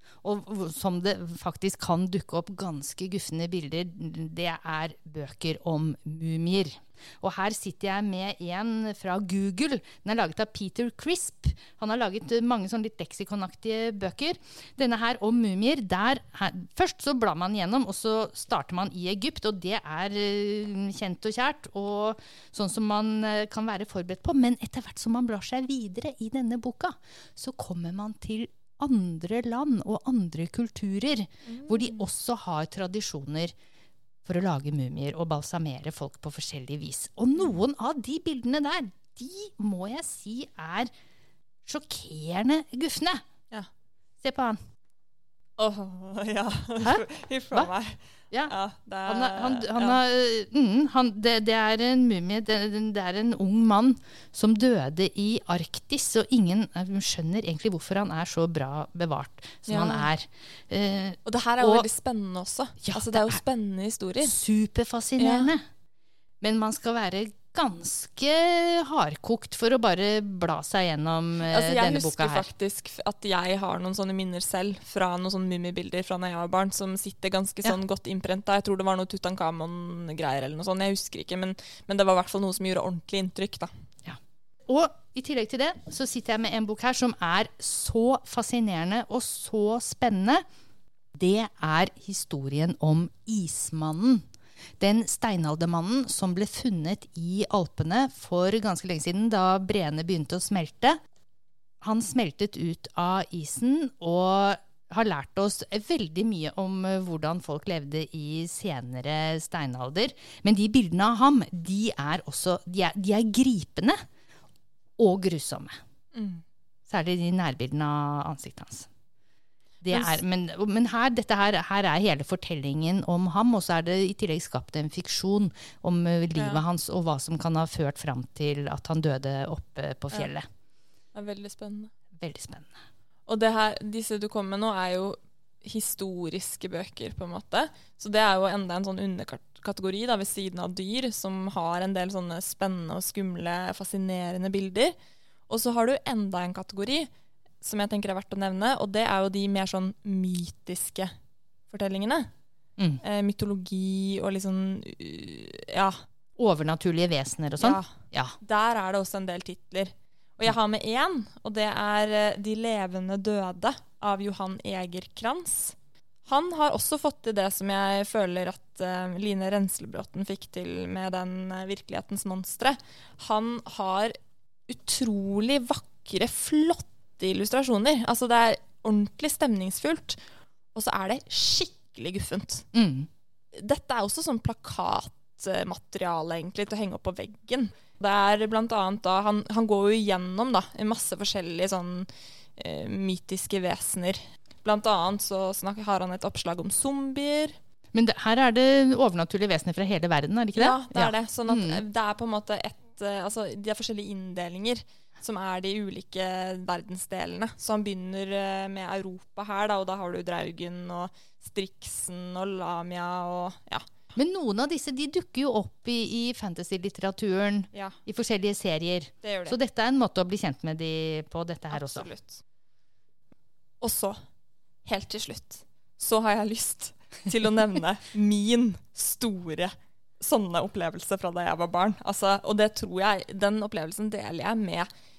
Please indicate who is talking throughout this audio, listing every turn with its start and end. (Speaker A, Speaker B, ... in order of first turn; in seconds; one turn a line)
Speaker A: 0.2-33.5
Speaker B: 31.5-32.1
Speaker A: 34.2-40.9
Speaker A: 41.7-43.2
Speaker A: 44.2-44.6
Speaker B: 45.6-50.0
Speaker A: 46.8-47.7
Speaker A: 49.1-61.9
Speaker B: 59.7-60.1
Speaker B: 61.2-64.3
Speaker A: 62.8-63.4
Speaker A: 64.2-65.6
Speaker B: 65.2-65.5
Speaker A: 66.4-72.5
Speaker B: 71.4-83.7
Speaker A: 84.0-90.4
Speaker A: 91.2-94.2
Speaker A: 94.8-101.0
Speaker A: 101.8-114.0
Speaker A: 115.0-115.7
Speaker B: 116.1-116.4
Speaker A: 116.9-118.9
Speaker A: 119.8-130.4
Speaker B: 119.9-120.2
Speaker B: 126.3-126.6
Speaker B: 131.1-131.9
Speaker A: 132.2-132.7
Speaker B: 133.3-144.9
Speaker B: 145.5-147.1
Speaker B: 147.6-151.1
Speaker B: 151.7-152.3
Speaker B: 153.0-156.0
Speaker A: 156.4-158.4
Speaker B: 157.6-174.1
Speaker B: 174.7-180.2
Speaker B: 180.7-182.7
Speaker A: 182.7-183.1
Speaker B: 183.6-197.6
Speaker A: 197.9-201.8
Speaker B: 200.6-213.8
Speaker A: 214.2-222.1
Speaker B: 219.2-219.6
Speaker B: 221.7-222.4
Speaker B: 223.8-224.2
Speaker B: 224.8-234.9